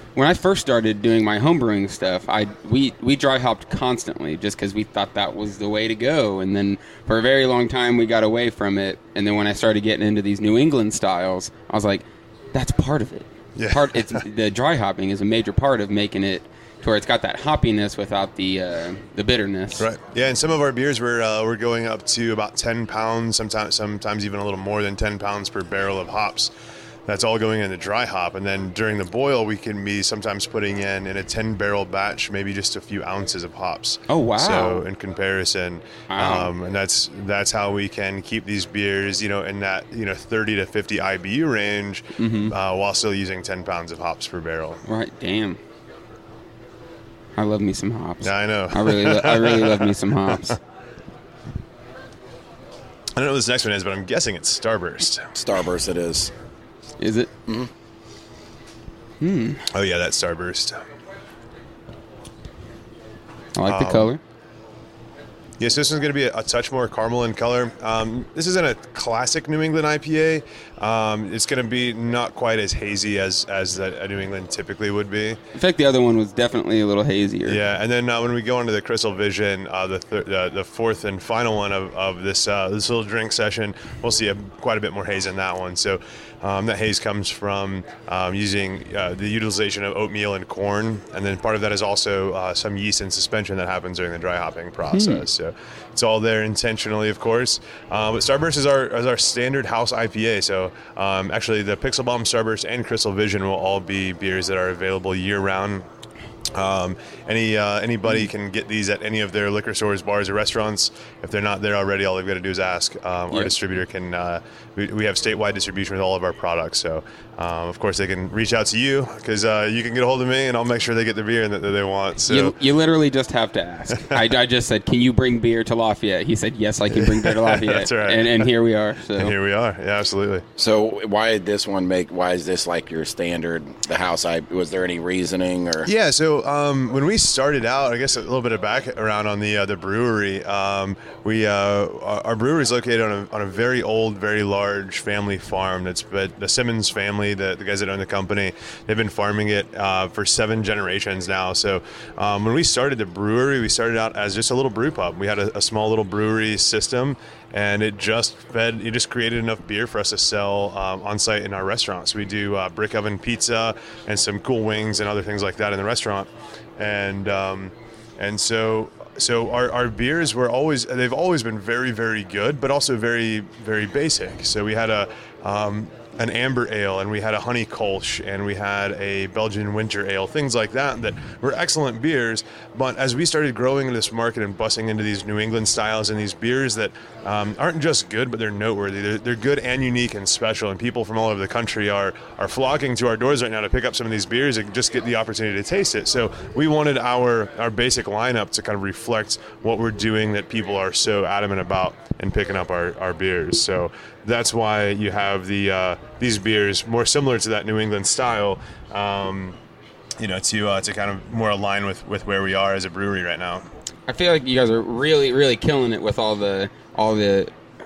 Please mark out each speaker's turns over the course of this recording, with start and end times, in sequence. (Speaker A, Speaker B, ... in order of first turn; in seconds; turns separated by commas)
Speaker A: 0.1-19.9, Speaker B: 13.6-14.2, Speaker B: 19.8-26.5, Speaker B: 27.1-44.8, Speaker A: 34.1-34.8, Speaker A: 36.1-36.5, Speaker A: 42.2-42.5, Speaker A: 44.9-45.6, Speaker A: 47.4-50.6, Speaker B: 48.2-50.5, Speaker B: 53.2-55.3, Speaker C: 55.4-56.3, Speaker A: 57.0-57.3, Speaker A: 59.2-59.6, Speaker B: 59.7-60.8, Speaker A: 63.6-64.2, Speaker B: 63.6-64.1, Speaker B: 65.6-75.4, Speaker A: 75.5-77.6, Speaker B: 77.5-105.9, Speaker A: 94.9-95.2, Speaker B: 106.5-122.6, Speaker A: 113.3-113.6, Speaker A: 122.3-129.3, Speaker B: 126.9-128.5, Speaker B: 129.2-130.4, Speaker C: 130.6-135.9, Speaker B: 135.8-209.6, Speaker B: 210.2-213.7, Speaker A: 214.1-217.5